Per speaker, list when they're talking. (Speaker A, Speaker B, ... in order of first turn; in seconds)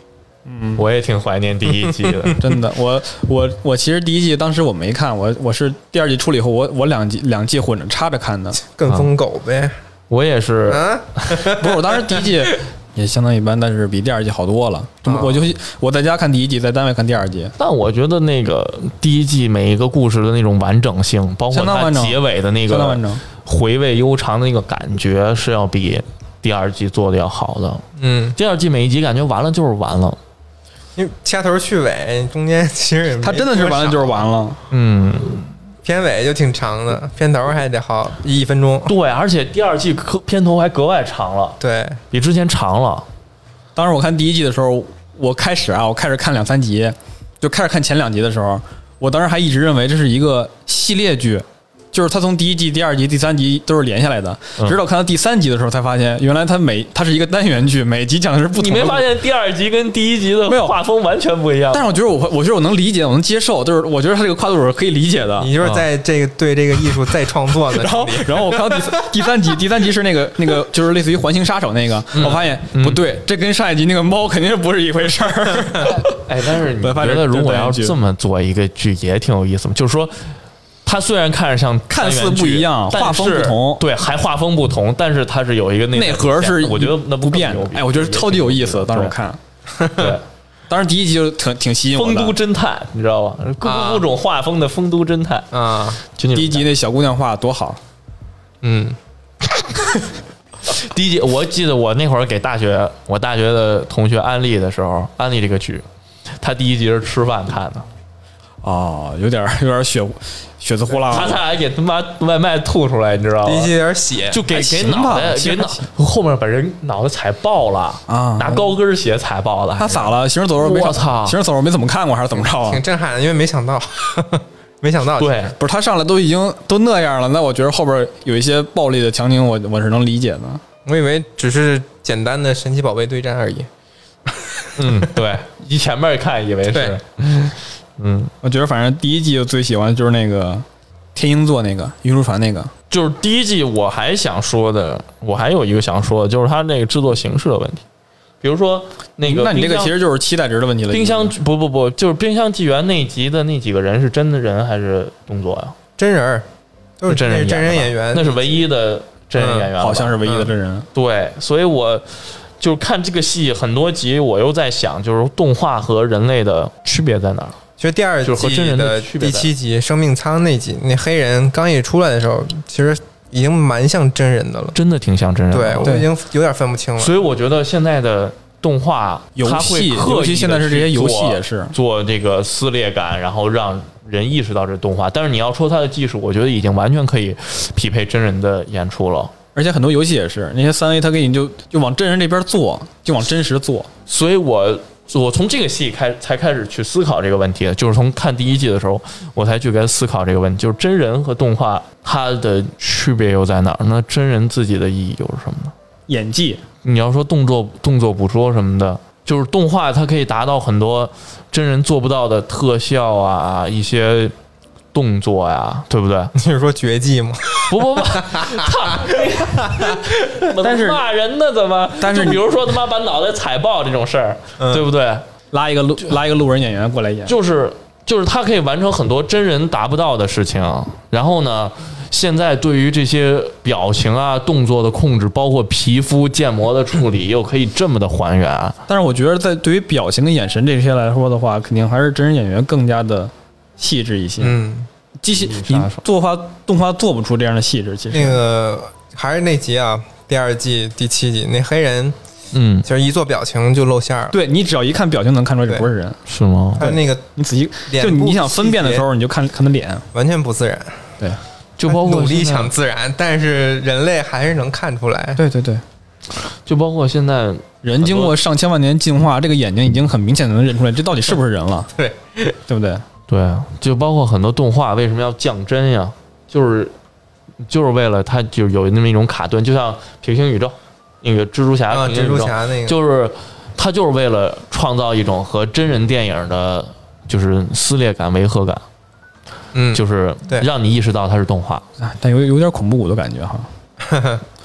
Speaker A: 0.5-0.8, 2.4-8.6, 11.5-17.5, 21.5-23.2, 33.2-34.6, 43.8-59.1, 60.5-60.8, 61.7-65.5, 67.6-78.0, 81.9-83.8, 85.9-89.4, 90.7-92.4, 96.3-97.8, 108.6-111.4, 114.5-115.9, 118.1-118.7, 119.8-122.8, 125.6-130.6, 138.4-142.7, 149.2-151.3, 159.8-160.9, 175.8-176.1, 179.3-181.7, 189.5-193.9, 206.1-206.6, 220.6-221.0, 222.0-222.4, 225.5-227.3, 238.9-244.6, 245.2-248.4, 254.3-256.2, 256.8-260.1, 265.4-265.8, 267.8-271.9, 272.7-273.0, 292.0-293.7
Speaker B: 0.8-2.4, 10.1-11.5, 17.6-27.8, 28.3-30.2, 34.7-35.5, 38.9-41.6, 42.1-43.1, 58.5-61.9, 65.6-65.8, 72.1-73.0, 76.2-89.1, 89.9-90.2, 91.9-96.7, 100.7-105.8, 106.4-107.9, 111.1-113.7, 114.3-121.4, 125.2-125.5, 134.8-138.3, 142.9-147.8, 148.4-149.9, 150.9-155.7, 157.1-160.2, 160.9-167.6, 168.2-169.5, 174.7-176.0, 177.0-189.3, 194.1-205.7, 206.8-214.3, 214.9-216.3, 217.7-225.2, 227.2-238.8, 245.3-246.0, 252.5-252.9, 256.3-256.9, 261.8-262.7, 266.3-268.4, 273.3-276.9, 277.6-288.8, 289.9-291.8
Speaker C: 8.6-9.7, 10.7-12.2, 15.1-15.4, 28.0-28.4, 30.9-34.2, 35.8-38.9, 41.6-42.0, 65.4-69.1, 89.8-90.2, 93.6-94.1, 95.5-96.0, 98.6-99.0, 113.4-114.5, 122.3-125.5, 130.8-133.7, 134.2-135.1, 136.7-137.0, 156.0-156.4, 157.0-158.7, 159.3-159.7, 160.2-160.5, 167.8-174.8, 175.5-177.1, 216.3-220.1, 224.6-224.8, 244.4-244.9, 248.1-252.2, 252.8-254.3, 256.8-257.2, 257.9-259.0, 260.1-261.1, 261.9-265.4, 271.9-272.6, 281.9-282.9, 289.7-290.7, 294.0-294.4